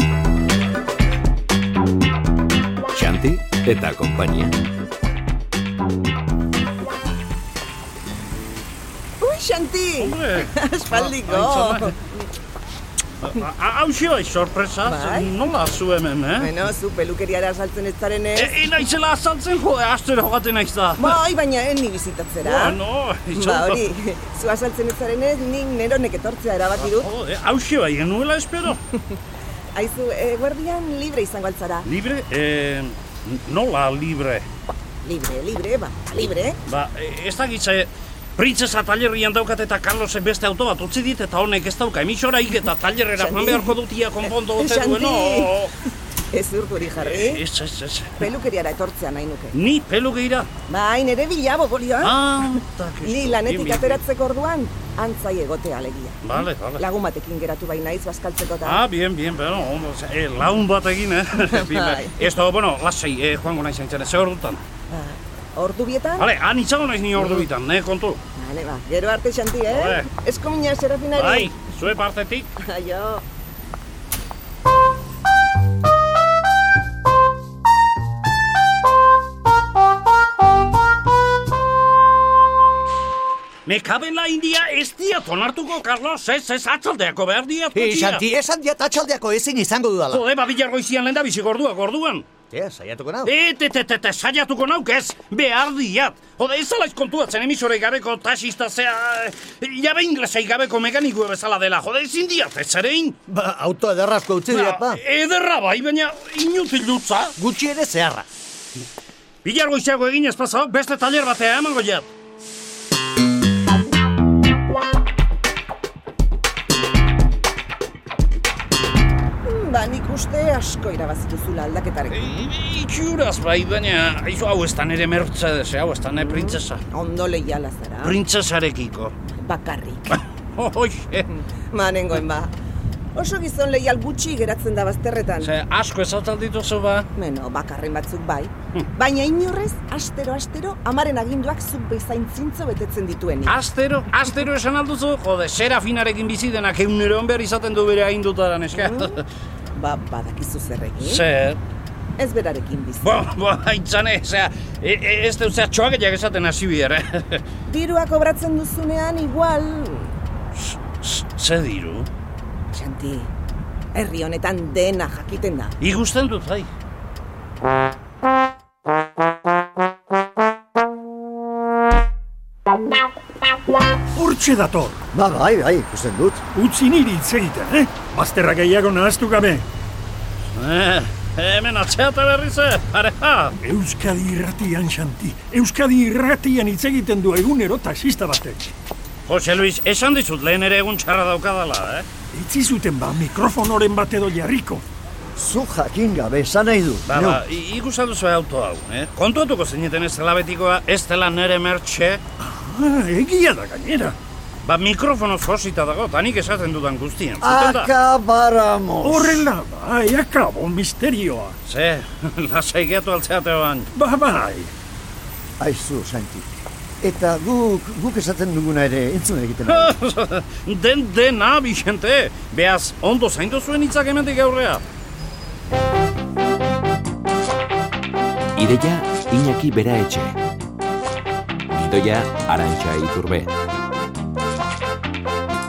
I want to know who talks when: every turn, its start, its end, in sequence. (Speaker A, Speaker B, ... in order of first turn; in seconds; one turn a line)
Speaker A: 2.9-4.5
Speaker B: 9.2-12.2
Speaker C: 10.0-11.9
Speaker C: 13.2-16.5
Speaker B: 14.8-15.3
Speaker B: 16.4-18.7
Speaker C: 18.4-21.2
Speaker B: 21.0-22.8
Speaker C: 22.4-23.9
Speaker B: 23.3-27.1
Speaker C: 26.7-28.8
Speaker B: 29.7-31.9
Speaker C: 31.8-34.5
Speaker B: 35.0-36.6
Speaker C: 36.7-45.7
Speaker B: 43.1-43.8
Speaker B: 44.3-45.6
Speaker B: 46.3-47.4
Speaker C: 47.0-48.2
Speaker B: 48.2-49.5
Speaker C: 49.5-50.5
Speaker B: 50.7-52.2
Speaker C: 52.0-54.0
Speaker B: 53.0-58.8
Speaker C: 56.2-56.8
Speaker C: 58.6-64.6
Speaker B: 61.4-62.1
Speaker B: 64.9-66.3
Speaker C: 66.2-68.2
Speaker B: 68.3-71.5
Speaker C: 69.7-70.1
Speaker C: 71.1-72.5
Speaker B: 72.6-73.2
Speaker C: 83.7-88.2
Speaker D: 88.0-90.2
Speaker C: 90.1-92.3
Speaker D: 92.5-93.3
Speaker C: 93.2-103.2
Speaker D: 103.3-104.5
Speaker C: 104.5-107.3
Speaker D: 107.4-108.2
Speaker C: 109.4-112.1
Speaker B: 119.4-122.5
Speaker C: 122.1-126.8
Speaker B: 126.1-128.2
Speaker C: 128.0-129.1
Speaker B: 129.3-130.2
Speaker C: 130.1-131.3
Speaker B: 131.7-132.5
Speaker B: 133.1-135.5
Speaker C: 135.4-137.1
Speaker B: 137.1-143.6
Speaker C: 143.5-149.2
Speaker B: 148.7-149.2
Speaker B: 149.7-151.2
Speaker C: 151.0-151.6
Speaker B: 152.2-153.2
Speaker C: 153.0-157.4
Speaker B: 157.7-160.1
Speaker C: 160.6-162.1
Speaker B: 162.7-163.3
Speaker B: 163.9-165.8
Speaker C: 165.8-166.7
Speaker E: 174.1-175.0
Speaker F: 175.1-176.4
Speaker E: 176.5-179.6
Speaker C: 180.5-183.6
Speaker E: 183.6-188.7
Speaker C: 189.3-192.1
Speaker E: 192.3-194.8
Speaker F: 195.3-197.4
Speaker C: 197.1-202.2
Speaker E: 202.4-204.2
Speaker C: 204.6-207.9
Speaker F: 207.4-209.5
Speaker E: 209.0-211.6
Speaker C: 211.7-213.9
Speaker E: 213.9-214.7
Speaker F: 215.6-216.4
Speaker F: 217.0-219.9
Speaker C: 219.6-224.8
Speaker A: 228.6-230.4
Speaker A: 231.7-233.5